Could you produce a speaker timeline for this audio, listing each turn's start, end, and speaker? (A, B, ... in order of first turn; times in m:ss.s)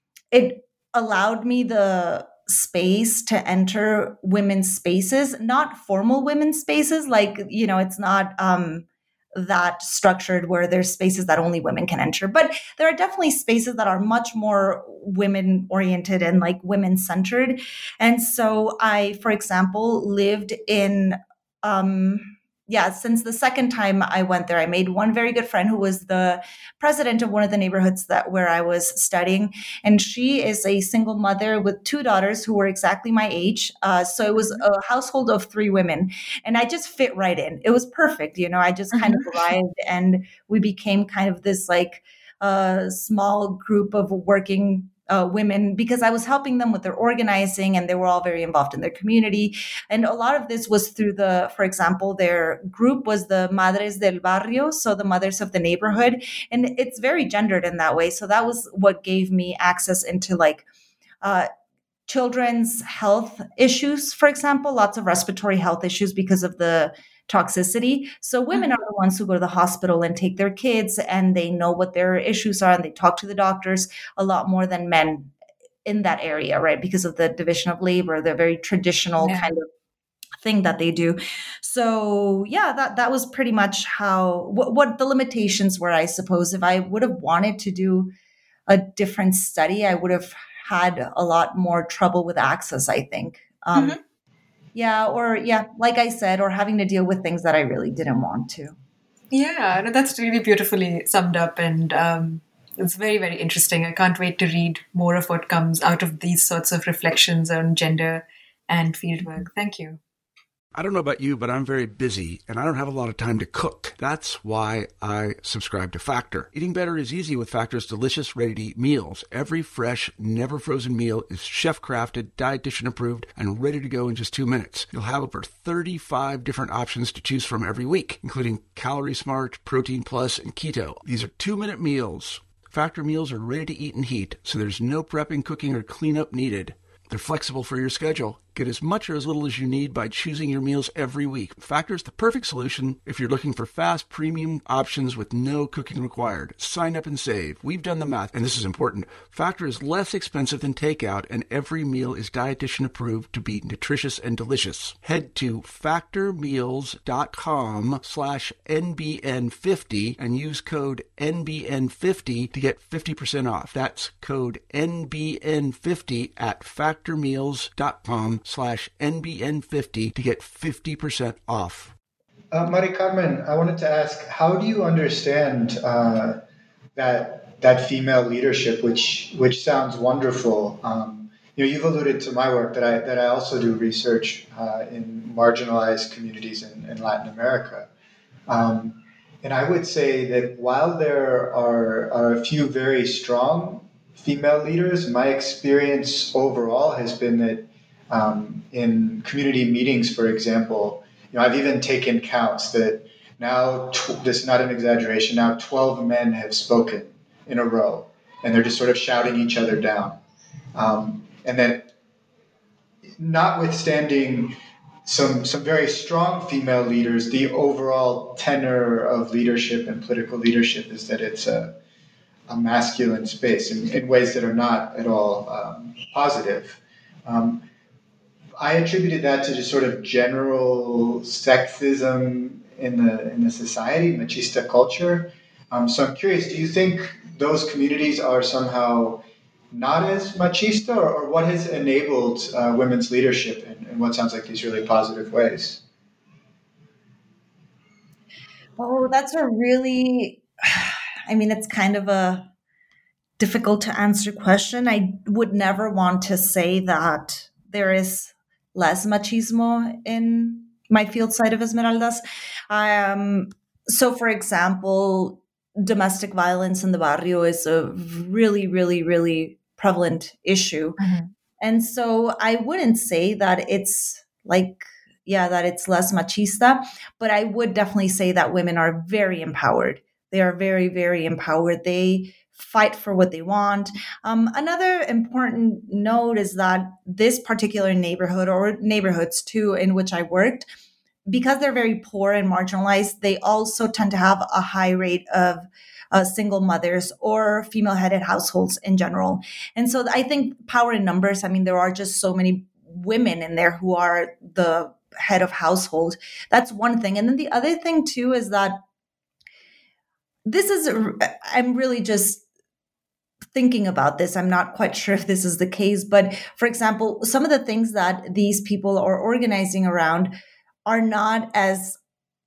0:00.3-1:00.6 A
0:34.4-0:34.6 B
0:38.9-0:39.5 B
1:01.2-1:01.5 A
1:02.1-1:15.3 A
1:15.8-1:19.7 A
1:19.2-1:19.5 B
1:20.4-1:28.1 A
1:28.7-1:34.0 A
1:33.7-1:34.0 B
1:34.8-1:38.8 A
1:39.3-1:50.0 B
1:50.7-2:51.9 C
2:52.5-2:56.4 D
2:57.0-3:07.9 D
3:08.5-3:30.2 D
3:30.8-3:31.9 D
3:33.2-3:41.8 D
3:42.5-3:47.6 D
3:48.6-4:05.8 D
4:08.8-4:12.5 A
4:13.4-4:31.0 A
4:31.0-4:31.3 B
4:31.6-4:50.7 A
4:51.3-5:08.8 A
5:10.4-5:12.4 A
5:13.5-5:20.3 A
5:20.9-5:22.0 A